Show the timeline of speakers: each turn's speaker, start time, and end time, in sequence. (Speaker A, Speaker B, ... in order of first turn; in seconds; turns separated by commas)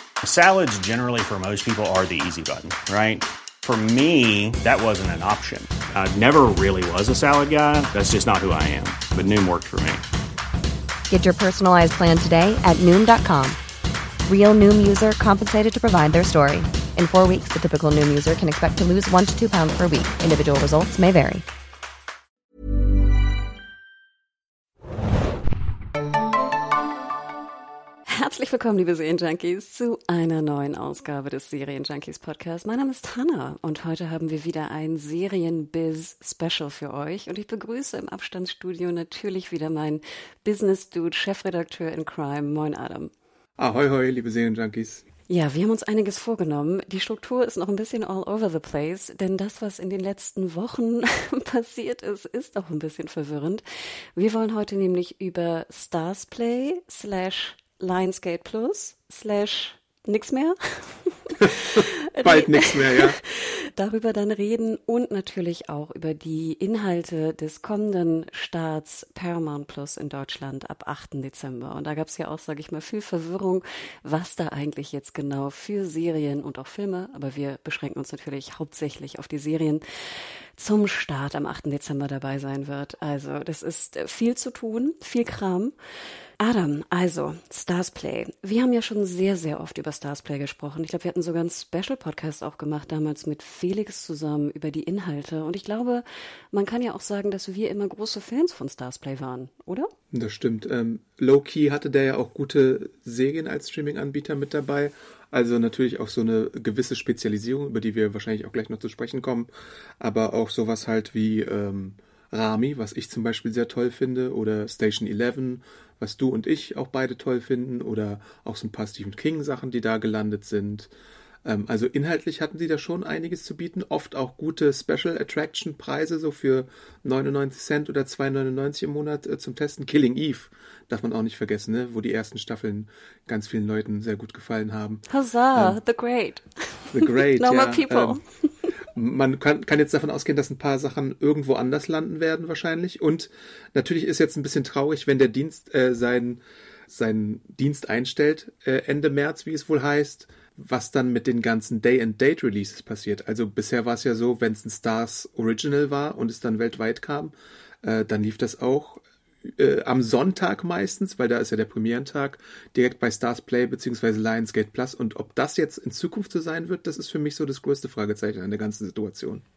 Speaker A: 0.2-10.0, Speaker B: 11.1-13.6, Speaker B: 14.3-21.4, Speaker C: 28.1-43.1, Speaker D: 43.6-45.0, Speaker C: 45.3-53.6, Speaker C: 54.1-79.8, Speaker D: 61.4-63.2, Speaker C: 80.6-85.7, Speaker C: 86.4-99.9, Speaker D: 100.1-109.5, Speaker D: 110.0-120.9, Speaker D: 121.4-135.0, Speaker C: 135.1-138.7, Speaker D: 136.9-138.2, Speaker D: 138.9-169.4